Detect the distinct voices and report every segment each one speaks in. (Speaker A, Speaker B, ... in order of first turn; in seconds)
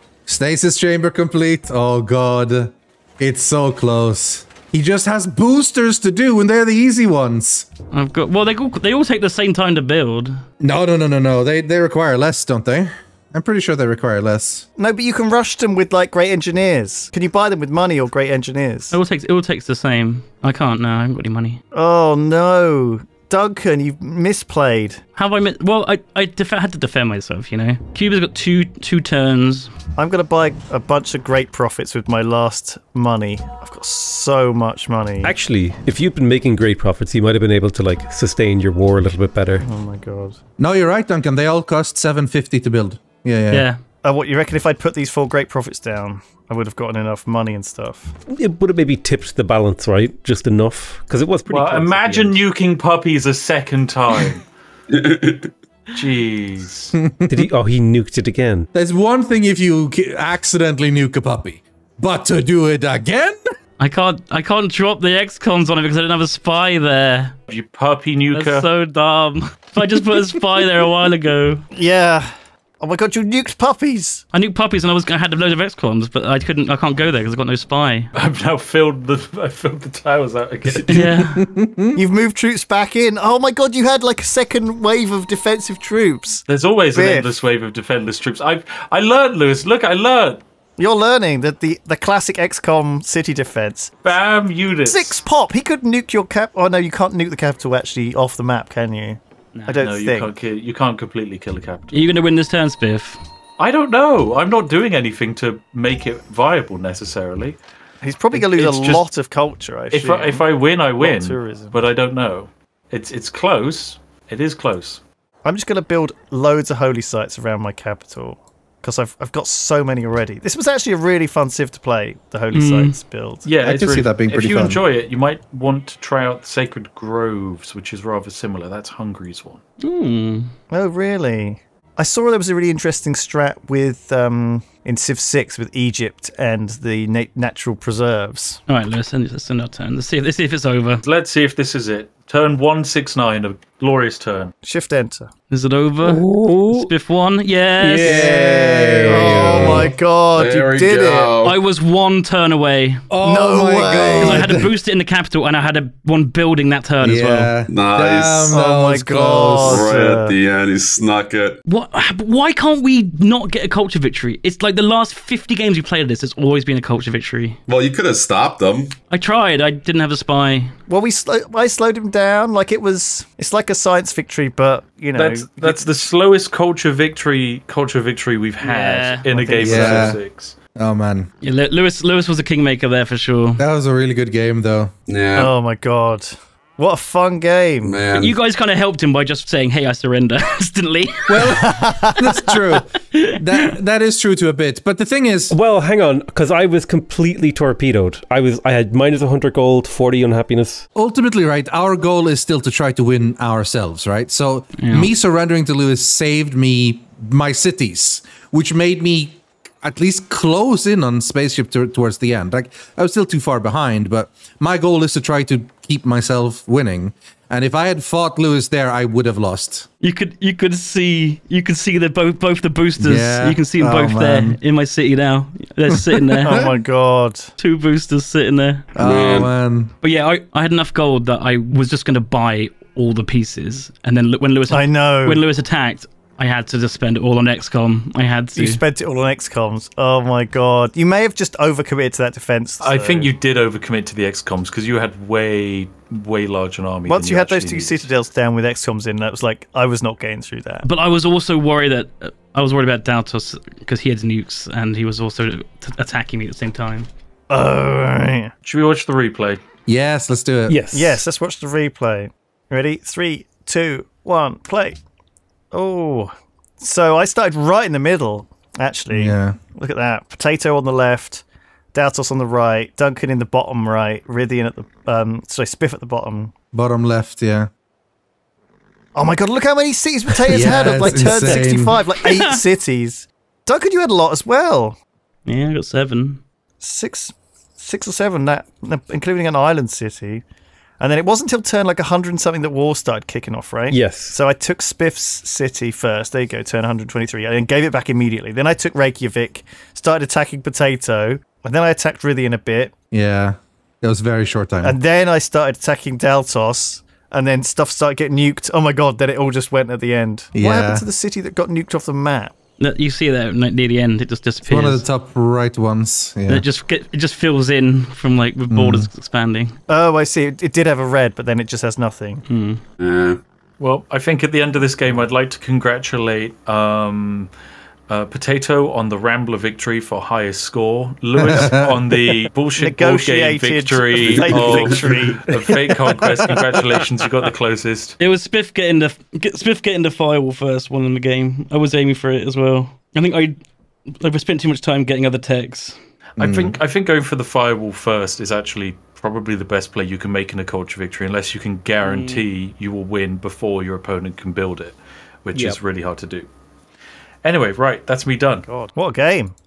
Speaker A: 0.2-7.7, 10.6-14.7, 40.6-43.7, 57.0-57.5, 58.7-63.4, 81.1-82.0, 123.6-124.8, 148.0-149.9, 153.1-154.7, 157.0-159.9, 179.6-180.2, 180.8-181.3, 183.6-184.9, 191.3-195.6, 200.9-219.9, 223.0-224.6, 225.9-226.7, 228.9-229.9, 259.9-260.8, 269.1-269.6, 276.7-277.7, 280.4-282.0, 303.1-304.9, 310.5-311.1, 314.7-316.6, 318.7-319.1, 331.4-332.0, 346.4-346.8
Speaker B: 7.9-10.4, 18.9-21.6, 25.1-29.7, 43.5-43.8, 63.8-67.3, 68.3-71.6, 74.3-78.1, 80.9-81.4, 99.5-99.8, 101.9-103.2, 122.5-123.0, 129.8-130.5, 138.7-141.0, 145.5-148.2, 151.4-153.0, 154.2-157.5, 161.7-167.6, 169.1-170.7, 178.6-179.3, 181.4-183.6, 188.1-192.6, 193.1-193.7, 204.8-205.1, 220.0-226.7, 227.6-228.9, 230.0-238.8, 250.8-257.1, 282.1-282.6, 285.4-286.4, 312.8-315.0, 316.5-319.8, 322.5-322.8, 338.2-343.6, 344.1-346.0, 352.0-352.4
Speaker C: 14.8-19.0, 21.7-25.0, 29.9-35.4, 39.6-40.4, 44.0-48.1, 71.7-74.2, 81.9-86.4, 86.9-87.3, 90.8-93.9, 94.9-100.3, 108.0-111.8, 115.4-123.5, 130.7-138.6, 144.6-145.3, 148.1-151.3, 153.2-154.5, 158.5-160.3, 170.9-175.8, 179.3-180.2, 185.3-188.0, 191.6-192.2, 226.4-227.5, 234.7-235.4, 238.6-243.3, 247.1-250.8, 257.5-258.5, 260.9-265.0, 265.7-276.5, 279.1-285.0, 286.8-290.4, 291.0-302.9, 304.8-312.5, 319.9-322.4, 332.8-335.7, 358.7-359.5
Speaker D: 35.2-39.6, 48.3-52.4, 57.3-58.7, 146.0-146.9, 147.8-149.9, 195.5-200.8, 260.7-261.2, 293.9-294.4, 355.5-355.8
Speaker E: 51.5-54.4, 55.9-57.0, 67.5-68.7, 78.1-81.1, 86.5-90.4, 94.0-95.2, 99.7-101.9, 103.6-107.6, 108.3-109.0, 109.9-115.0, 123.4-129.6, 141.0-144.5, 175.1-180.6, 242.8-248.1, 258.6-259.6, 323.8-327.5, 328.1-338.1, 346.4-356.5, 357.4-358.7
Speaker F: 54.9-55.5, 150.3-151.6, 157.7-158.6, 159.6-161.6, 167.7-168.9, 185.1-185.5, 187.8-188.4, 229.0-229.5, 323.0-323.4, 334.2-334.9